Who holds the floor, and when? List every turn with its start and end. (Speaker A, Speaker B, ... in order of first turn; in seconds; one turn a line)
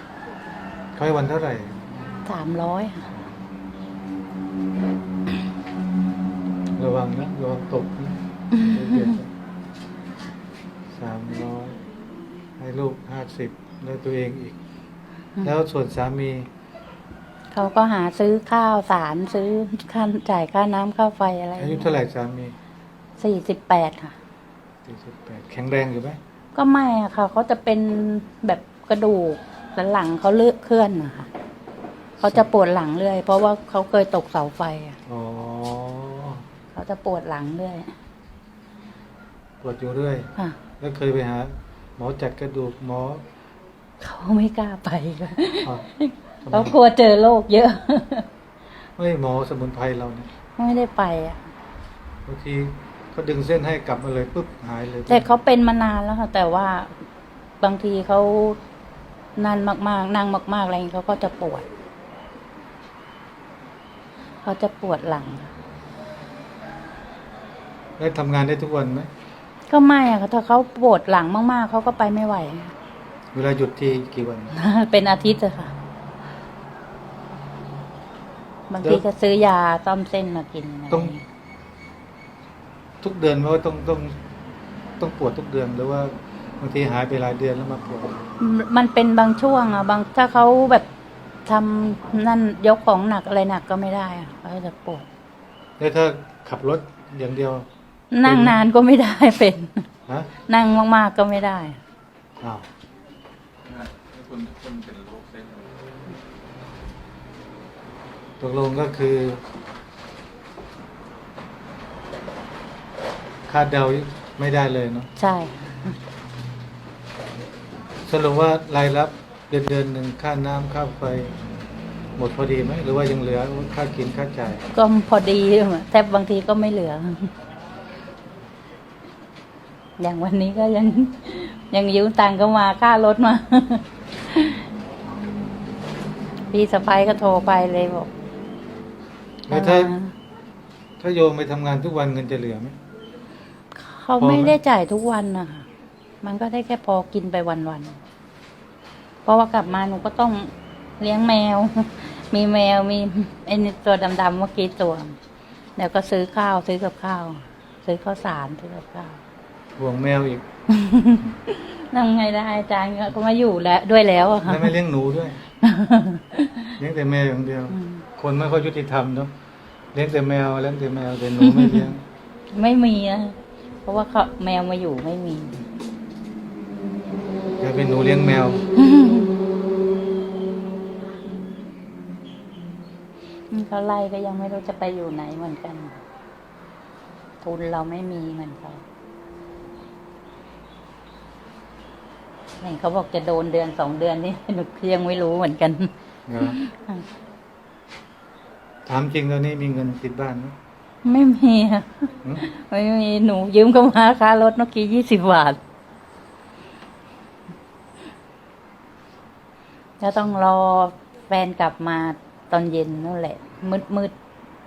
Speaker A: 1.0-2.1
Speaker B: 2.2-3.1
Speaker A: 6.8-9.3
Speaker B: 8.6-9.1
Speaker A: 10.9-11.8
Speaker A: 12.6-14.6
Speaker A: 15.4-16.5
Speaker B: 17.5-21.9
Speaker A: 21.6-22.6
Speaker B: 23.2-24.1
Speaker A: 24.9-26.2
Speaker B: 26.5-31.3
Speaker B: 32.2-35.0
Speaker A: 35.1-36.4
Speaker B: 36.7-37.9
Speaker A: 39.6-43.2
Speaker B: 44.0-48.3
Speaker A: 46.4-46.8
Speaker A: 49.0-50.3
Speaker B: 50.6-51.5
Speaker A: 52.3-55.3
Speaker B: 55.1-57.0
Speaker B: 57.6-58.6
Speaker B: 59.4-61.7
Speaker B: 64.4-65.5
Speaker A: 68.0-69.1
Speaker B: 69.7-72.7
Speaker A: 73.3-74.5
Speaker B: 74.5-75.7
Speaker B: 78.7-81.2
Speaker A: 80.9-81.2
Speaker A: 83.0-84.2
Speaker A: 85.0-88.2
Speaker B: 88.4-90.9
Speaker B: 91.5-95.0
Speaker A: 95.8-97.7
Speaker B: 98.1-99.9
Speaker A: 98.2-98.6
Speaker B: 100.5-101.8
Speaker A: 102.4-102.7
Speaker C: 103.7-105.7
Speaker A: 108.4-109.4
Speaker A: 113.5-115.1
Speaker B: 115.2-116.0
Speaker A: 118.1-121.4
Speaker A: 122.2-124.7
Speaker B: 124.7-127.3
Speaker B: 130.0-134.7
Speaker B: 136.5-138.1
Speaker A: 139.5-140.0
Speaker B: 139.5-140.1
Speaker A: 141.0-142.8
Speaker B: 143.7-145.7
Speaker A: 144.2-144.6
Speaker B: 146.2-148.0
Speaker B: 149.2-155.2
Speaker B: 155.8-159.2
Speaker A: 159.8-160.4
Speaker B: 160.7-164.7
Speaker A: 164.4-165.4
Speaker B: 165.6-166.7
Speaker A: 166.8-169.3
Speaker B: 167.7-168.1
Speaker A: 169.9-172.0
Speaker B: 171.4-171.9
Speaker B: 172.5-175.6
Speaker A: 177.6-178.6
Speaker B: 178.8-179.3
Speaker B: 183.5-186.0
Speaker B: 187.4-188.8
Speaker B: 192.6-197.0
Speaker A: 196.3-196.6
Speaker A: 198.9-200.6
Speaker B: 201.0-205.6
Speaker B: 210.0-214.1